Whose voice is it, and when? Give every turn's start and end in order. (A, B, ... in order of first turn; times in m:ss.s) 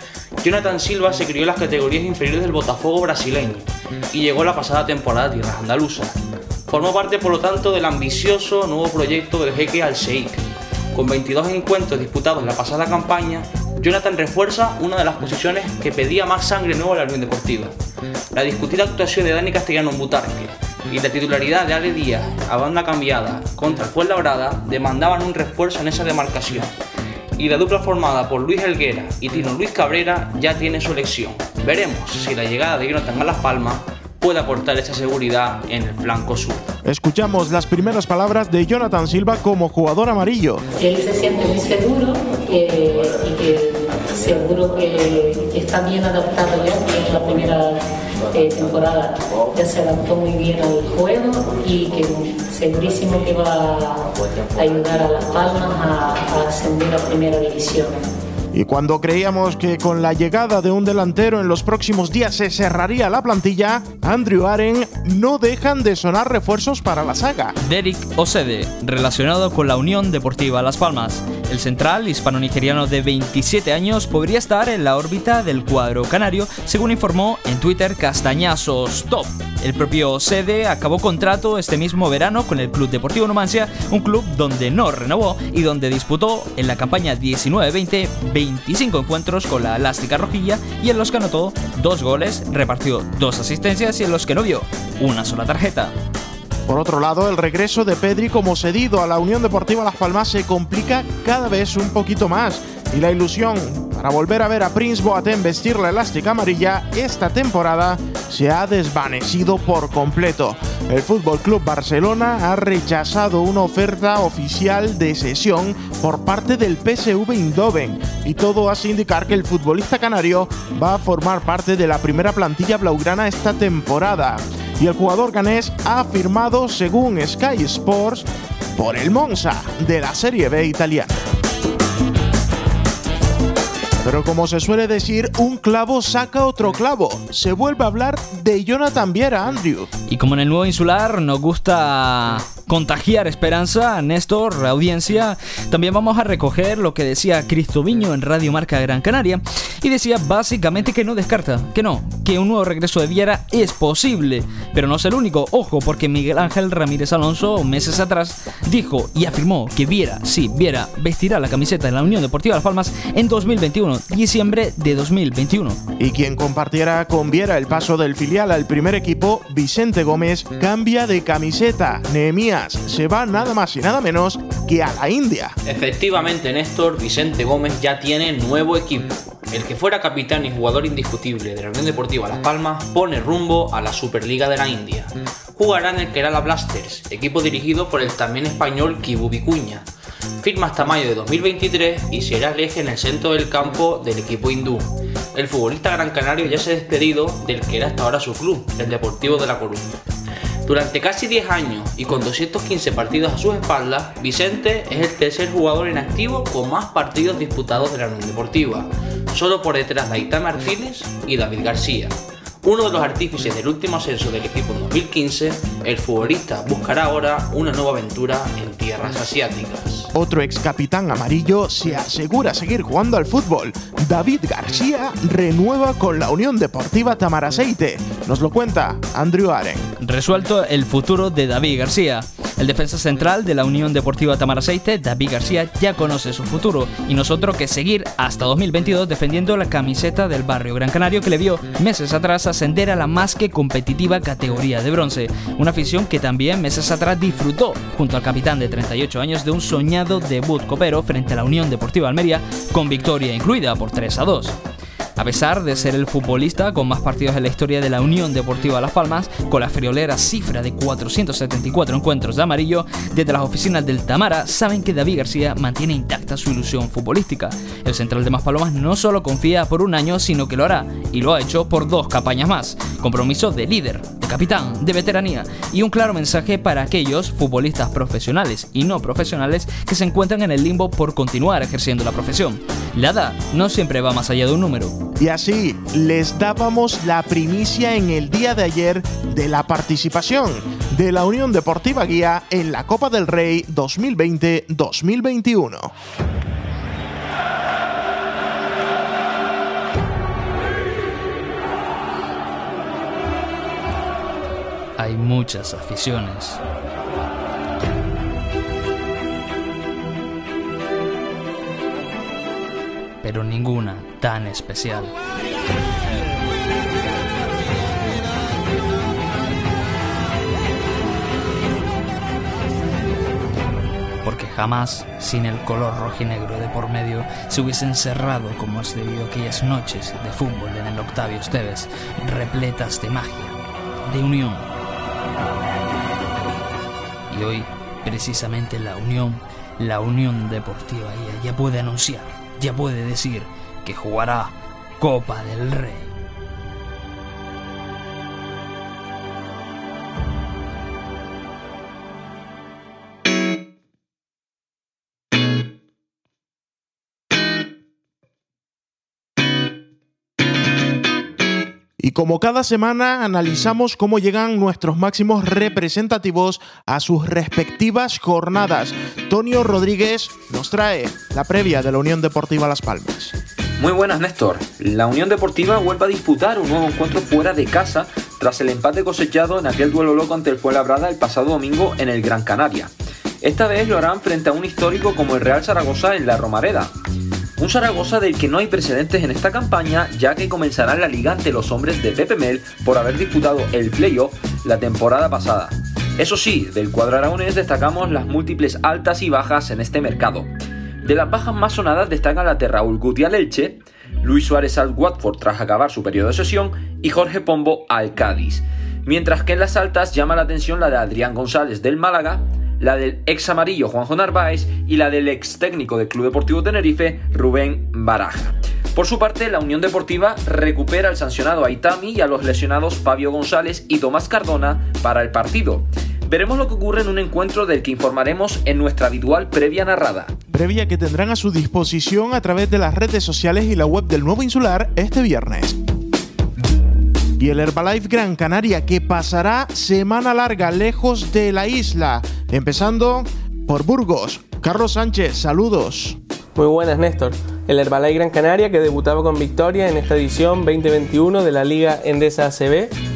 0:00.4-0:17.8 A
0:18.3-0:26.8 A
0:27.4-0:36.8 A
0:36.8-0:40.6 B
0:40.8-0:58.1 C
0:58.5-1:07.6 B
1:07.6-1:35.9 D
1:36.7-2:11.2 B
2:14.0-2:19.9 B
2:20.1-2:45.8 D
2:46.0-2:55.6 B
2:55.7-3:09.9 A
3:10.4-3:20.0 A
3:20.6-3:40.1 A
3:40.1-3:49.9 B
3:50.0-4:14.6 D
4:15.2-4:45.0 D
4:45.2-4:55.9 B
5:05.0-5:06.6 D
5:13.2-5:15.2 D
5:24.2-5:34.7 D
5:37.3-5:46.1 D
6:02.0-6:13.3 B
6:13.8-6:26.9 E
6:27.6-6:40.5 E
6:41.0-7:10.3 E
7:10.5-7:15.8 B
7:17.4-7:26.2 B
7:26.6-7:32.9 F